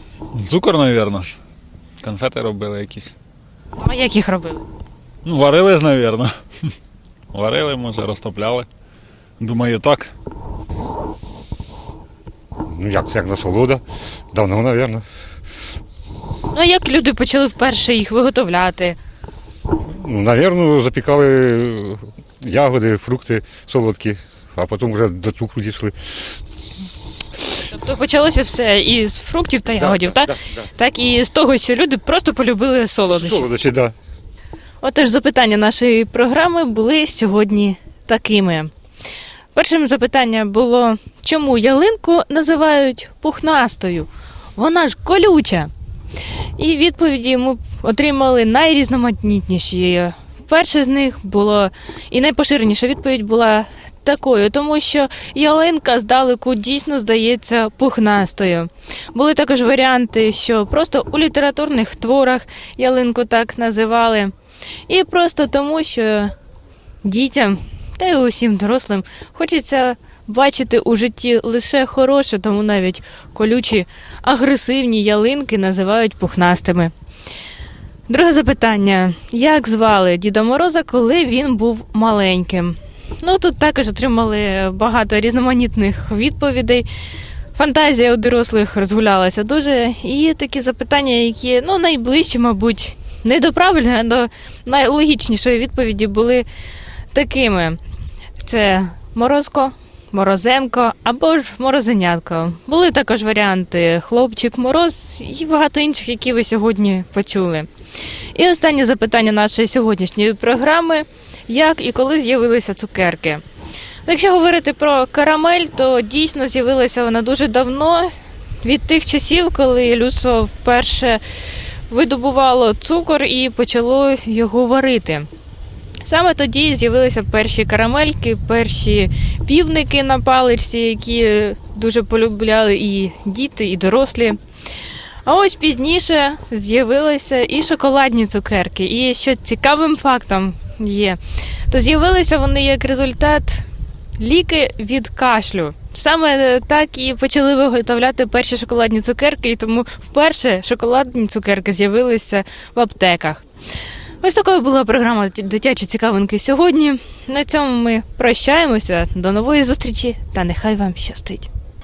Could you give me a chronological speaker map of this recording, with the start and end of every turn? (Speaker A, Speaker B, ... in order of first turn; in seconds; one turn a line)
Speaker A: 0.3-1.4
Speaker A: 2.0-3.1
Speaker B: 3.8-4.6
Speaker A: 5.2-6.3
Speaker A: 7.3-8.7
Speaker A: 9.4-10.1
Speaker C: 12.7-15.0
Speaker B: 16.5-19.0
Speaker C: 19.9-26.4
Speaker B: 27.6-33.5
Speaker C: 29.8-30.7
Speaker C: 33.1-33.9
Speaker B: 34.8-38.7
Speaker B: 39.5-45.7
Speaker B: 46.6-64.3
Speaker B: 64.9-66.3
Speaker B: 67.0-76.9
Speaker B: 78.1-86.9
Speaker B: 87.5-96.5
Speaker B: 97.1-97.8
Speaker B: 98.4-107.7
Speaker B: 108.3-113.4
Speaker B: 114.0-118.1
Speaker B: 118.6-121.2
Speaker B: 121.9-125.3
Speaker B: 126.0-134.4
Speaker B: 135.2-141.2
Speaker B: 141.7-143.6
Speaker B: 144.2-153.4
Speaker B: 154.2-161.5